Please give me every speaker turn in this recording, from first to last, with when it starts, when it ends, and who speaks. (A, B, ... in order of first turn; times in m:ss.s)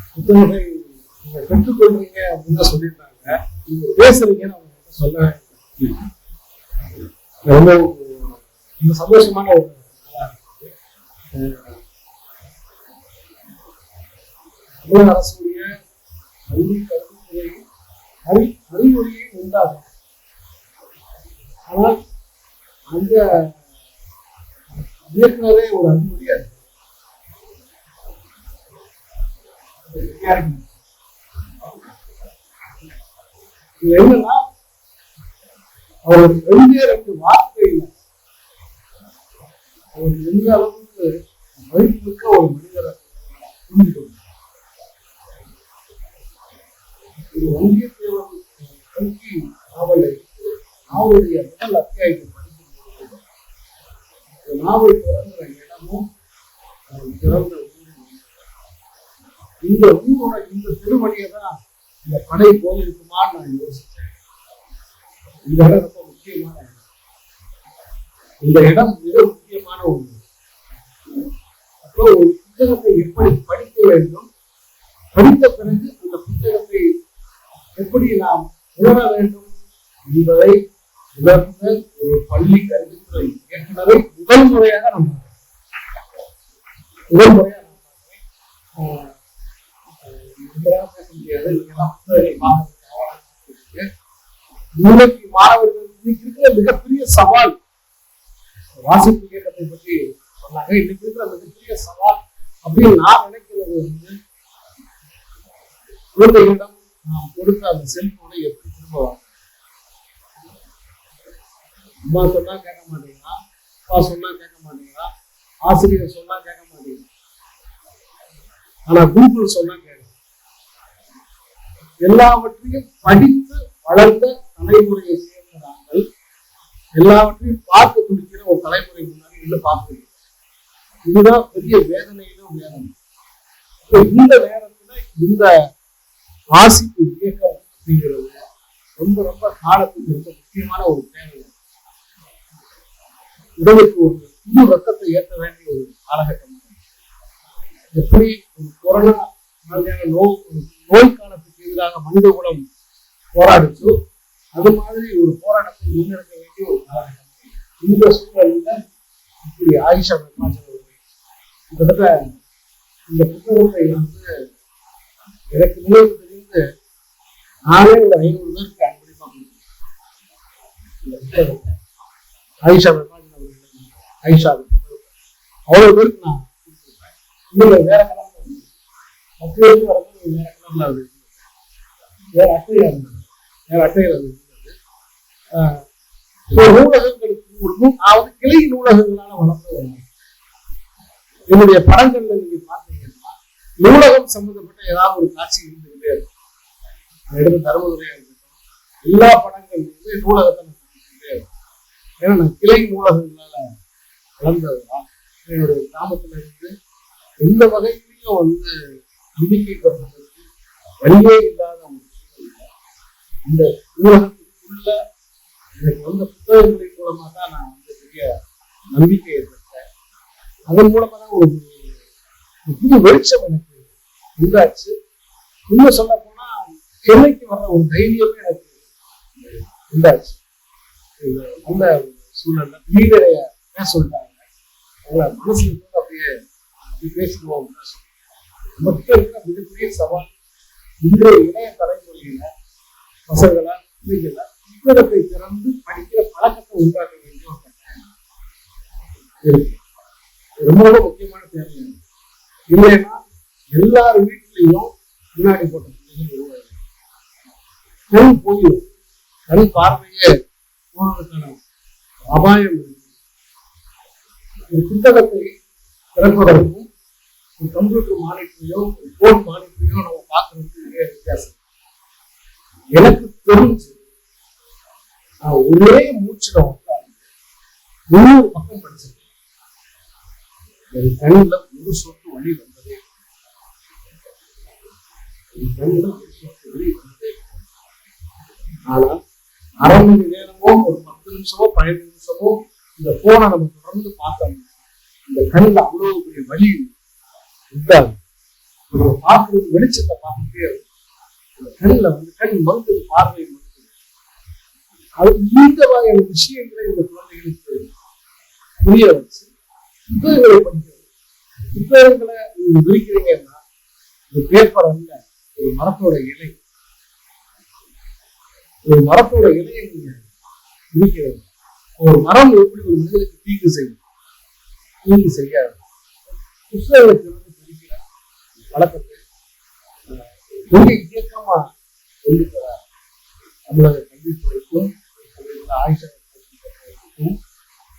0:00.1-0:06.0 A
0:07.4-0:10.7 A
0:11.3-0:11.8 A
0:14.8-0:15.7 A
0:16.5-0:17.6 A
0:18.3-0:19.9 A
0:21.7-0:22.0 A
0:22.9-0:23.6 A
0:25.1-0:26.6 A
0:29.9-0:30.7 A
0:33.8-0:34.4 A
0:36.0-0:38.0 A
0:39.9-0:41.1 A
0:41.7-0:44.2 A
0:47.3-0:53.2 A
0:54.4-0:56.0 A
0:56.9-0:58.4 A
0:59.7-1:04.2 A
1:05.5-1:06.8 A
1:08.4-1:10.2 A
1:11.8-1:14.3 A
1:15.2-1:16.8 A
1:17.8-1:19.5 A
1:20.1-1:20.6 A
1:21.2-1:25.3 A
1:27.1-1:28.2 A
1:28.8-1:29.2 A
1:30.0-1:33.9 A
1:34.8-1:37.6 A
1:38.8-1:44.1 A
1:46.2-1:49.3 A
1:52.1-1:53.4 A
1:53.9-1:55.1 A
1:55.6-1:57.0 A
1:58.9-2:00.2 A
2:02.0-2:06.0 A
2:07.0-2:10.1 A
2:11.0-2:12.9 A
2:13.9-2:15.5 A
2:16.5-2:18.4 A
2:19.0-2:21.5 A
2:23.6-2:26.8 A
2:27.9-2:32.6 A
2:33.3-2:33.9 A
2:34.6-2:38.8 A
2:39.4-2:41.0 A
2:41.7-2:42.2 A
2:43.1-2:44.2 A
2:45.5-2:46.6 A
2:47.7-2:49.6 A
2:51.0-2:51.8 A
2:52.6-2:55.1 A
2:55.7-2:58.6 A
2:59.4-3:01.4 A
3:02.4-3:04.7 A
3:05.5-3:05.8 A
3:06.5-3:10.0 A
3:11.5-3:16.2 A
3:17.3-3:21.4 A
3:22.2-3:23.6 A
3:24.4-3:26.7 A
3:27.4-3:28.7 A
3:29.4-3:30.5 A
3:31.0-3:32.7 A
3:33.5-3:35.0 A
3:35.8-3:38.4 A
3:38.9-3:39.8 A
3:40.7-3:42.0 A
3:42.7-3:43.8 A
3:44.4-3:44.9 A
3:45.7-3:48.8 A
3:49.9-3:50.4 A
3:51.2-3:54.4 A
3:55.1-3:56.3 A
3:57.0-3:58.0 A
3:58.8-4:00.3 A
4:01.0-4:02.5 A
4:03.3-4:08.1 A
4:09.4-4:09.8 A
4:10.6-4:12.0 A
4:12.7-4:13.2 A
4:13.8-4:16.8 A
4:18.1-4:18.8 A
4:19.5-4:20.3 A
4:20.9-4:21.6 A
4:22.3-4:23.0 A
4:24.7-4:25.5 A
4:26.2-4:26.9 A
4:27.6-4:31.6 A
4:33.0-4:33.9 A
4:35.5-4:37.2 A
4:38.1-4:39.2 A
4:41.0-4:43.0 A
4:45.6-4:47.6 A
4:48.9-4:49.2 A
4:49.8-4:54.7 A
4:55.3-4:56.9 A
4:57.7-4:58.2 A
4:58.9-5:00.8 A
5:01.6-5:03.9 A
5:05.2-5:07.8 A
5:08.8-5:09.5 A
5:10.1-5:11.0 A
5:11.7-5:13.6 A
5:14.3-5:16.6 A
5:18.9-5:20.2 A
5:20.9-5:21.4 A
5:22.0-5:24.0 A
5:25.0-5:25.8 A
5:26.7-5:28.0 A
5:28.7-5:29.2 A
5:30.1-5:31.6 A
5:32.2-5:32.8 A
5:33.7-5:37.4 A